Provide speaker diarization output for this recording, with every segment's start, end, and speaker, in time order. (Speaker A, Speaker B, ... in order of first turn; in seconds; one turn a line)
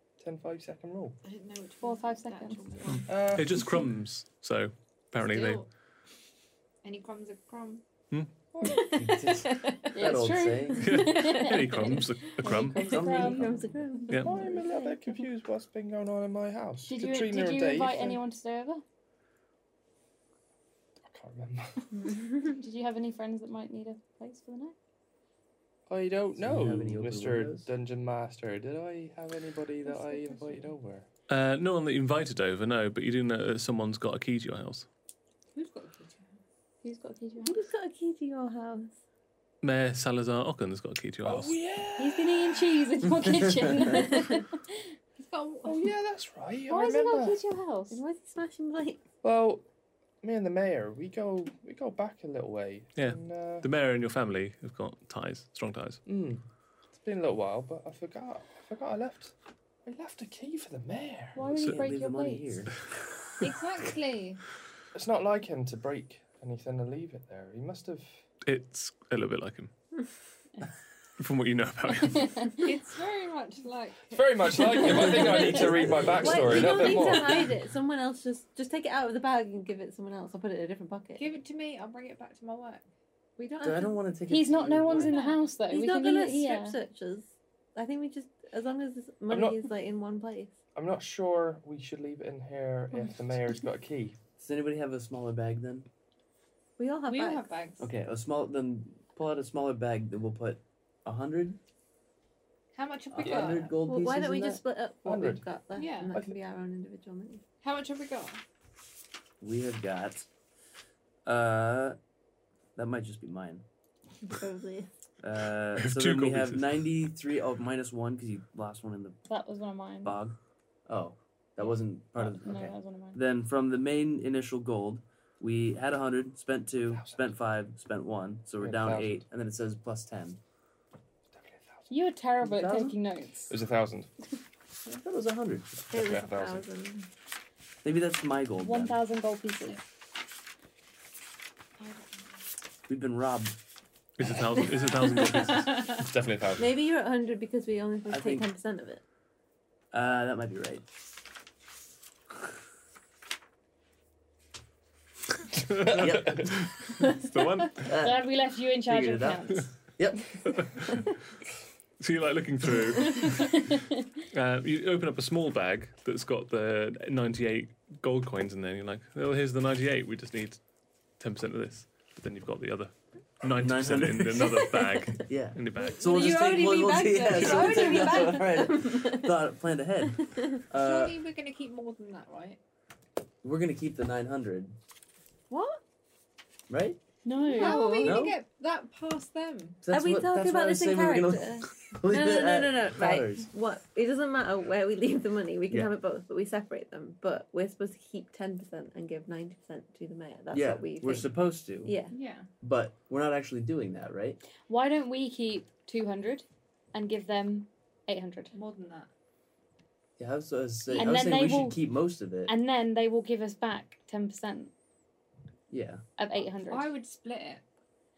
Speaker A: 0.2-1.1
Speaker B: 1.2-3.5
Speaker C: 1.8-2.9
Speaker D: 2.9-5.6
Speaker A: 3.1-3.7
Speaker B: 5.2-5.7
Speaker B: 6.8-7.8
Speaker A: 8.5-9.0
Speaker E: 8.6-10.0
Speaker F: 8.9-11.1
Speaker C: 9.9-13.6
Speaker D: 10.8-12.9
Speaker E: 11.1-15.0
Speaker F: 12.8-13.8
Speaker D: 14.1-14.3
Speaker A: 14.1-18.2
Speaker C: 16.8-18.8
Speaker A: 21.0-21.9
Speaker E: 22.0-22.4
Speaker C: 22.4-24.7
Speaker A: 25.9-31.1
Speaker F: 26.4-27.7
Speaker D: 31.3-34.9
Speaker B: 35.5-36.3
Speaker C: 36.8-37.6
Speaker E: 37.4-38.9
Speaker D: 39.6-41.5
Speaker A: 41.2-42.7
Speaker C: 42.0-44.9
Speaker B: 45.2-45.9
Speaker A: 45.6-47.4
Speaker C: 46.7-48.0
Speaker E: 47.9-49.0
Speaker A: 49.2-49.6
Speaker A: 50.2-53.7
Speaker D: 53.0-56.0
Speaker A: 56.0-61.4
Speaker C: 61.3-62.6
Speaker F: 61.4-62.8
Speaker B: 63.4-64.4
Speaker A: 64.9-68.2
Speaker D: 68.4-69.7
Speaker D: 71.2-72.3
Speaker C: 72.0-72.6
Speaker B: 72.6-75.7
Speaker A: 74.1-77.5
Speaker F: 74.9-77.1
Speaker E: 76.2-81.3
Speaker B: 81.2-82.8
Speaker E: 83.4-84.0
Speaker F: 83.6-85.2
Speaker C: 84.3-86.8
Speaker B: 85.0-85.5
Speaker E: 85.7-90.5
Speaker A: 89.3-89.7
Speaker A: 90.7-94.2
Speaker F: 94.4-95.9
Speaker E: 96.8-97.5
Speaker B: 97.0-97.9
Speaker F: 97.8-101.6
Speaker B: 102.7-103.8
Speaker F: 103.1-104.6
Speaker A: 103.2-103.5
Speaker E: 103.8-107.4
Speaker A: 105.0-105.4
Speaker B: 105.7-106.2
Speaker B: 107.6-108.4
Speaker F: 109.4-110.3
Speaker F: 111.2-112.0
Speaker F: 112.8-113.6
Speaker E: 114.2-114.9
Speaker F: 115.2-119.2
Speaker D: 115.8-116.7
Speaker C: 119.3-120.2
Speaker F: 120.0-130.4
Speaker C: 122.1-123.2
Speaker A: 126.9-127.2
Speaker A: 128.6-129.2
Speaker A: 131.3-131.8
Speaker C: 131.9-133.5
Speaker F: 132.4-133.0
Speaker A: 133.5-134.1
Speaker F: 134.9-135.9
Speaker E: 135.9-137.1
Speaker A: 135.9-136.6
Speaker F: 137.8-139.0
Speaker C: 138.6-139.8
Speaker B: 141.8-142.3
Speaker F: 142.9-143.6
Speaker D: 144.2-145.9
Speaker A: 145.9-146.7
Speaker E: 146.6-149.0
Speaker F: 148.1-148.5
Speaker F: 149.9-150.9
Speaker D: 155.6-157.9
Speaker F: 155.9-156.9
Speaker F: 157.8-158.2
Speaker C: 157.8-159.7
Speaker F: 158.8-160.7
Speaker D: 160.4-161.1
Speaker D: 162.0-163.6
Speaker C: 163.2-164.0
Speaker D: 164.3-170.6
Speaker D: 171.2-176.0
Speaker F: 173.6-181.2
Speaker E: 175.8-179.3
Speaker B: 176.2-178.6
Speaker B: 180.8-182.6
Speaker F: 183.4-184.8
Speaker E: 185.5-185.8
Speaker F: 186.7-187.0
Speaker C: 187.2-188.1
Speaker E: 187.5-188.2
Speaker B: 187.5-189.8
Speaker F: 188.0-188.4
Speaker F: 189.8-193.5
Speaker E: 189.9-202.1
Speaker F: 200.5-201.9
Speaker B: 202.1-202.5
Speaker F: 202.6-204.4
Speaker C: 204.7-208.5
Speaker B: 208.5-209.1
Speaker F: 210.2-212.5
Speaker C: 210.9-211.8
Speaker C: 212.4-214.7
Speaker F: 215.7-216.0
Speaker C: 216.2-216.9
Speaker B: 216.7-217.6